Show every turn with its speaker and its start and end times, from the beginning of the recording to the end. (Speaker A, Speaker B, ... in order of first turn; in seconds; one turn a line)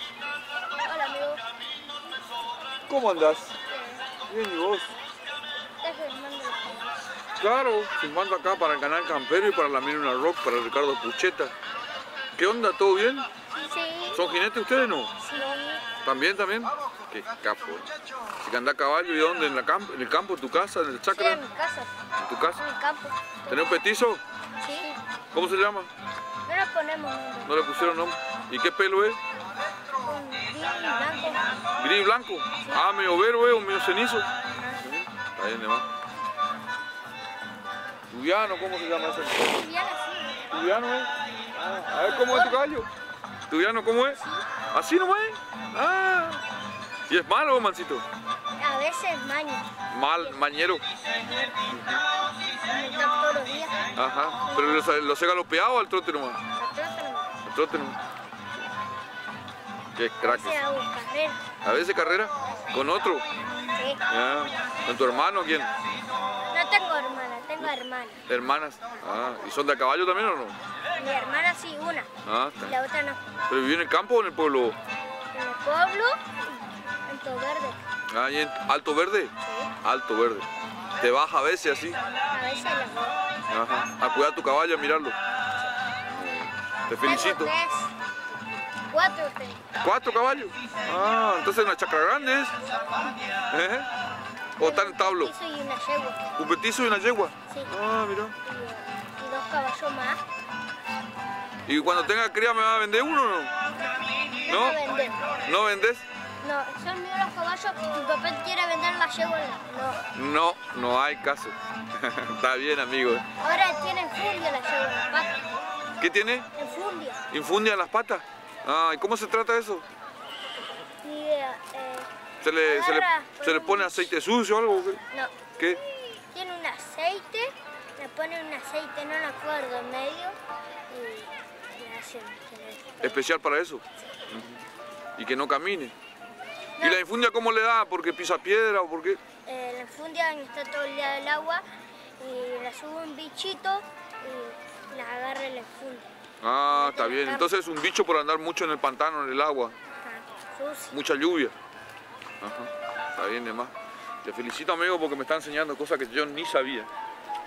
Speaker A: 0.7-1.4
Speaker B: 2.9-3.5
Speaker A: 3.6-4.0
Speaker B: 4.3-4.9
Speaker A: 5.8-7.0
Speaker B: 7.4-11.5
Speaker B: 12.3-13.3
Speaker A: 13.5-14.2
Speaker B: 14.1-15.1
Speaker A: 15.2-15.8
Speaker B: 16.0-21.4
Speaker A: 21.1-21.9
Speaker B: 22.2-22.6
Speaker A: 22.5-23.7
Speaker B: 23.5-24.2
Speaker A: 24.6-25.0
Speaker B: 25.3-25.9
Speaker A: 26.4-27.9
Speaker B: 27.4-29.2
Speaker A: 30.0-31.6
Speaker B: 31.8-34.2
Speaker B: 34.8-35.9
Speaker B: 38.1-39.6
Speaker A: 39.4-40.5
Speaker B: 40.5-42.9
Speaker A: 42.0-42.6
Speaker B: 43.5-44.2
Speaker A: 44.1-44.5
Speaker B: 44.7-46.4
Speaker B: 47.1-48.0
Speaker A: 48.6-49.7
Speaker B: 49.9-50.8
Speaker A: 51.1-51.9
Speaker A: 52.5-53.9
Speaker B: 53.9-56.4
Speaker A: 54.4-54.8
Speaker A: 56.5-57.3
Speaker B: 57.4-58.0
Speaker B: 59.9-60.6
Speaker A: 60.2-61.4
Speaker B: 61.6-63.2
Speaker A: 63.7-64.0
Speaker B: 64.1-65.7
Speaker A: 66.5-68.2
Speaker B: 68.3-70.6
Speaker A: 70.9-73.2
Speaker B: 72.2-72.8
Speaker B: 73.5-74.8
Speaker A: 75.3-77.8
Speaker B: 78.1-82.0
Speaker A: 79.4-79.7
Speaker A: 82.3-83.2
Speaker B: 83.5-85.2
Speaker B: 86.1-87.5
Speaker A: 87.0-87.9
Speaker A: 88.9-89.6
Speaker B: 89.8-92.6
Speaker B: 93.5-93.9
Speaker B: 94.6-95.3
Speaker A: 94.6-96.3
Speaker B: 96.4-98.3
Speaker A: 97.5-97.7
Speaker A: 98.4-100.2
Speaker B: 101.7-103.5
Speaker A: 104.4-105.2
Speaker B: 104.5-104.8
Speaker B: 105.5-106.0
Speaker A: 106.4-110.1
Speaker B: 110.1-113.2
Speaker A: 113.4-115.4
Speaker B: 116.0-116.5
Speaker A: 116.5-117.2
Speaker B: 117.3-119.8
Speaker A: 121.0-122.1
Speaker B: 122.4-125.0
Speaker A: 122.6-124.1
Speaker A: 125.1-130.4
Speaker A: 130.9-133.2
Speaker B: 133.0-134.6
Speaker B: 135.2-135.9
Speaker A: 136.8-137.0
Speaker B: 136.8-139.2
Speaker A: 139.4-141.6
Speaker A: 142.2-146.1
Speaker B: 146.4-149.7
Speaker A: 146.7-147.5
Speaker A: 150.0-151.0
Speaker B: 150.9-151.5
Speaker B: 152.4-153.7
Speaker B: 154.2-156.9